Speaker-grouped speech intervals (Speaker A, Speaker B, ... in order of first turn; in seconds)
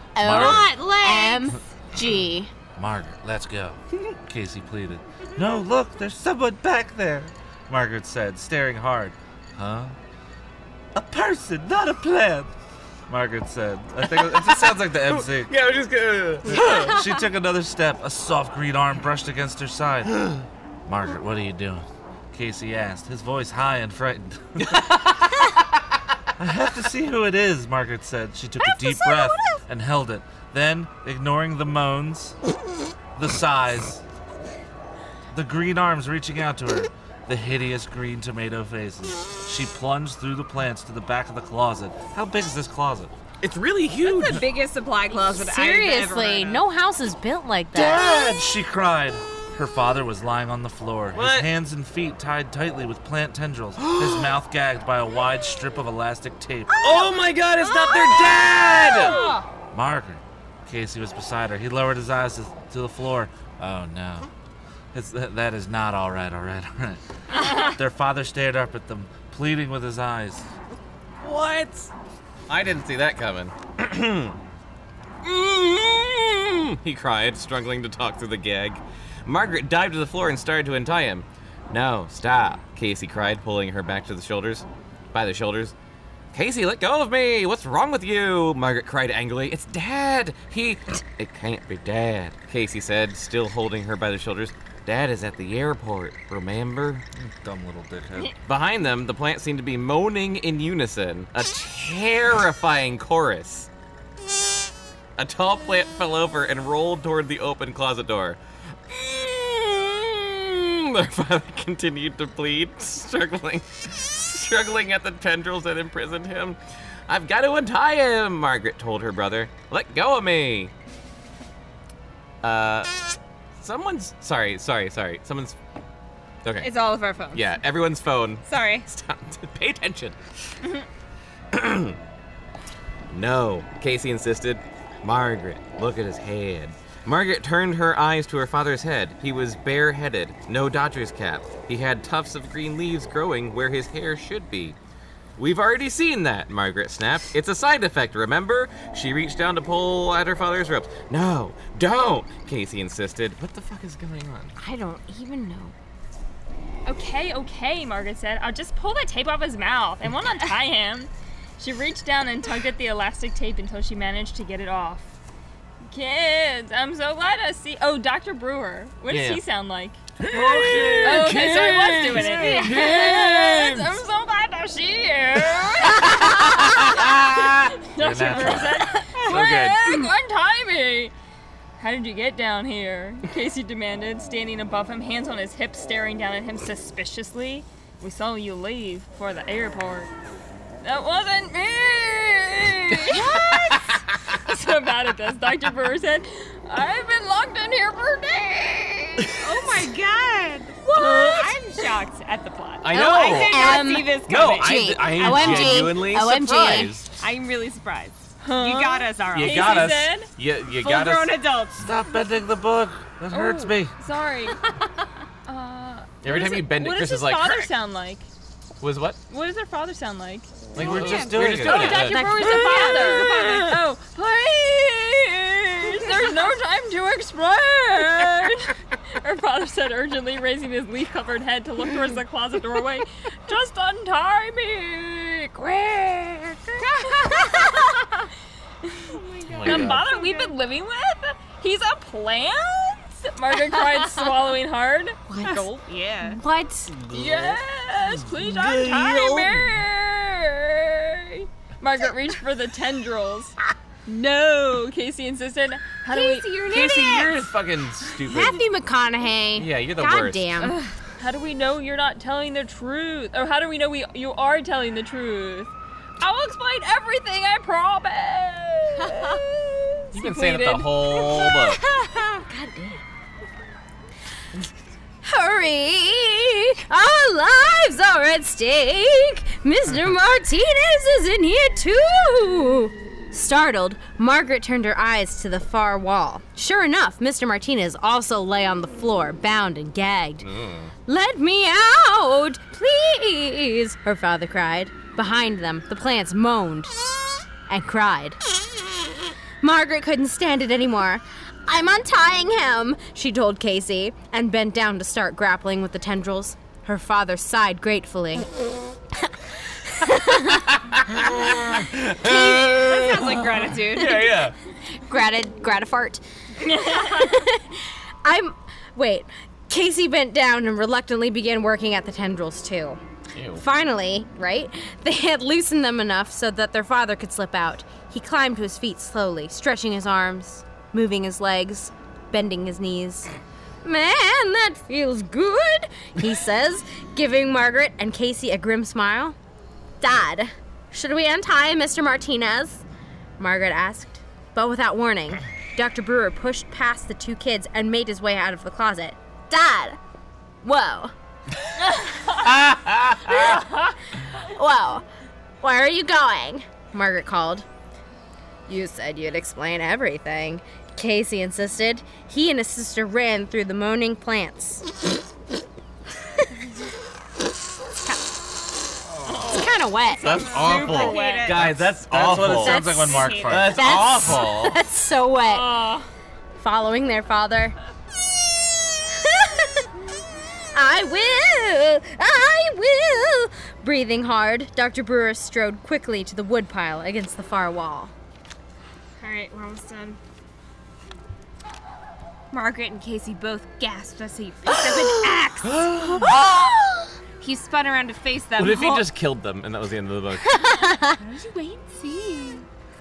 Speaker A: 0.1-2.5, 28.7-29.4, 45.2-48.1, 154.6-155.7, 202.9-206.9, 221.9-223.3, 245.3-245.7, 246.2-246.9, 258.3-260.8, 272.4-273.0, 275.2-290.5, 291.1-296.9, 297.7-298.4, 299.6-308.5, 309.9-310.7, 315.0-323.0, 323.6-333.3, 333.8-339.4, 340.0-342.8, 343.4-350.0, 350.6-351.1, 354.3-355.0, 355.6-357.6, 358.7-364.8, 369.4-370.5, 372.5-375.8, 376.6-377.7, 379.1-379.8, 380.7-388.1, 400.7-401.1
Speaker B: 0.2-0.7, 2.8-9.9, 10.9-12.5, 13.1-15.5, 16.4-20.1, 20.9-24.7, 26.4-32.4, 33.1-34.0, 35.3-43.1, 47.7-56.7, 59.7-64.3, 64.9-70.5, 97.2-98.3, 170.2-171.6, 172.1-172.7, 178.0-179.8, 211.8-213.9, 220.8-222.0, 371.6-373.9
Speaker C: 0.2-1.6, 44.0-46.6, 126.6-127.5, 128.5-128.9, 193.1-193.9, 199.4-206.0, 207.2-210.0, 210.8-211.8, 220.8-221.2, 222.3-223.7, 236.8-237.8, 239.1-240.5, 245.9-246.4, 256.1-257.5, 269.1-269.4, 271.8-272.4, 312.2-314.3, 370.2-371.8, 373.1-373.6, 389.2-390.2, 392.5-396.6, 397.4-399.1, 401.1-402.6
Speaker D: 14.0-17.1, 20.1-20.4, 24.6-25.3, 43.4-44.4, 51.1-51.5, 53.8-54.3, 56.8-59.3, 71.2-71.9, 72.5-74.4, 75.2-85.7, 86.3-97.0, 98.5-103.7, 105.2-120.7, 122.4-125.6, 126.4-126.7, 127.3-130.2, 131.5-132.0, 133.1-144.8, 145.4-154.5, 169.1-169.4, 170.2-174.0, 175.9-177.7, 179.3-179.8, 199.2-199.6, 202.8-207.2, 209.3-211.4, 216.2-217.7, 218.8-219.2, 220.7-222.2, 239.5-240.0, 247.0-247.6, 248.3-249.8, 256.7-258.6, 259.6-260.5, 270.1-271.8, 290.4-290.9, 311.0-314.5, 323.3-323.6, 352.4-353.5, 370.2-374.8, 394.7-396.5, 398.6-400.6
Speaker E: 59.0-59.4, 67.3-67.7, 156.8-165.1, 165.9-170.0, 171.0-181.1, 181.8-190.1, 190.8-193.3, 194.3-199.3, 200.8-201.6, 208.4-210.3, 213.3-214.6, 215.4-218.3, 219.3-238.3, 238.8-245.8, 247.1-253.5, 254.1-256.4, 260.6-271.3, 316.8-317.3, 351.9-352.5, 353.3-353.9, 370.7-371.5, 375.5-376.1